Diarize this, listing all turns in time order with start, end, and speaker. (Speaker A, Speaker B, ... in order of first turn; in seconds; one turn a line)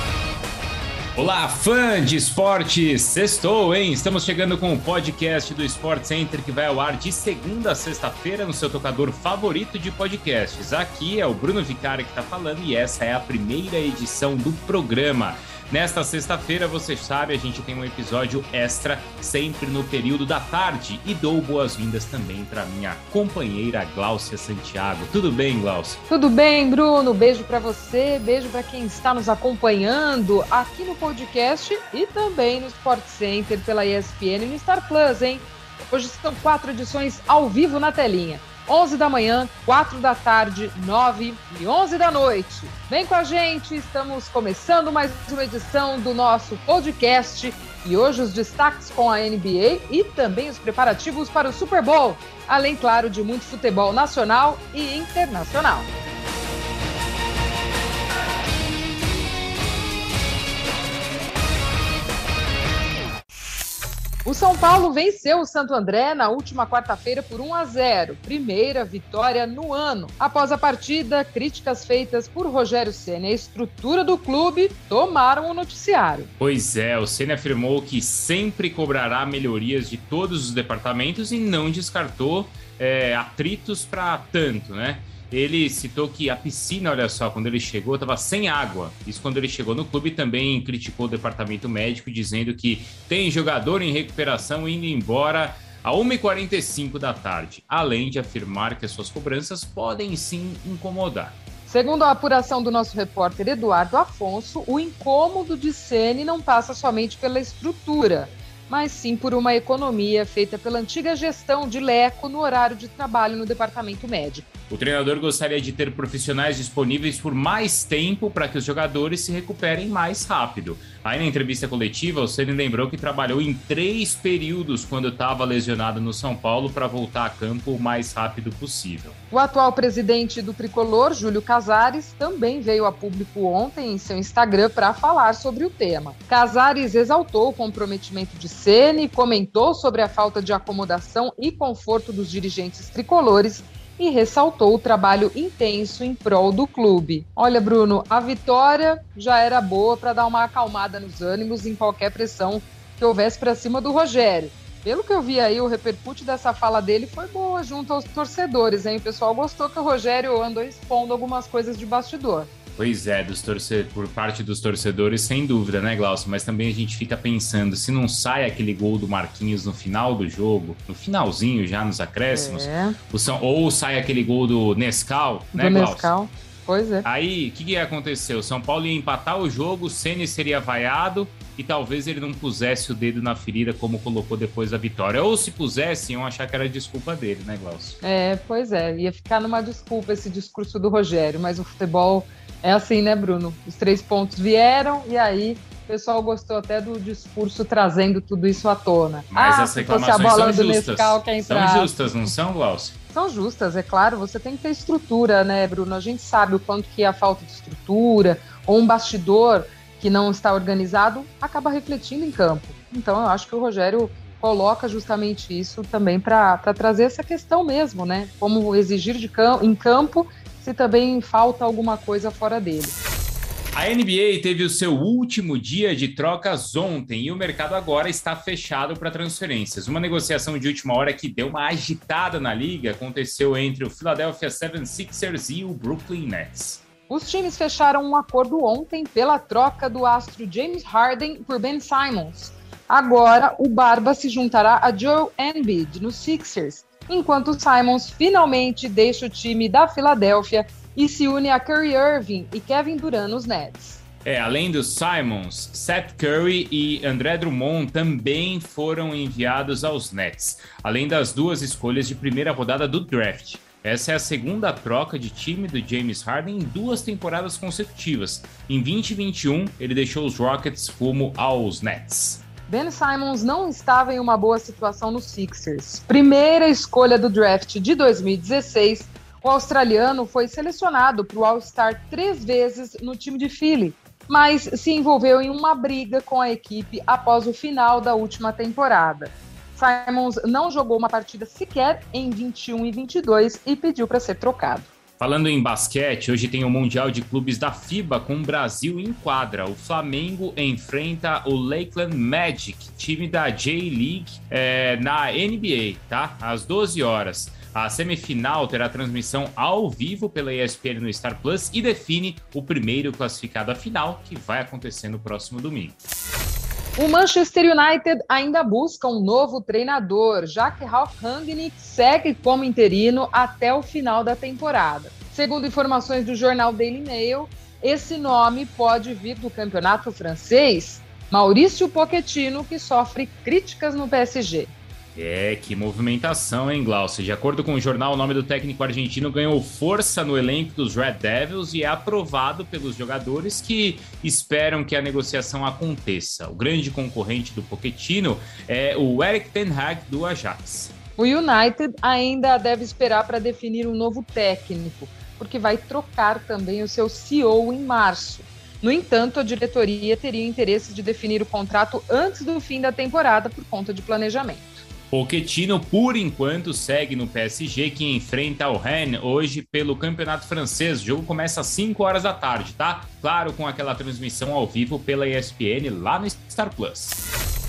Speaker A: 1.1-26.0
Speaker B: 26.1-55.9
Speaker B: 64.2-76.3
Speaker A: 76.4-101.4
Speaker B: 101.7-114.5
Speaker A: 114.7-129.2
Speaker B: 129.3-162.5
Speaker A: 162.8-176.1
Speaker B: 172.3-173.0
Speaker B: 175.5-177.1
Speaker A: 177.0-188.0
Speaker B: 188.0-202.0
Speaker A: 199.3-202.9
Speaker B: 203.1-223.0
Speaker A: 223.7-236.8
Speaker B: 237.1-254.0
Speaker A: 254.2-272.4
Speaker B: 272.7-294.9
Speaker A: 295.2-316.0
Speaker B: 316.9-334.7
Speaker A: 335.1-350.9
Speaker B: 351.2-364.8
Speaker A: 365.1-377.2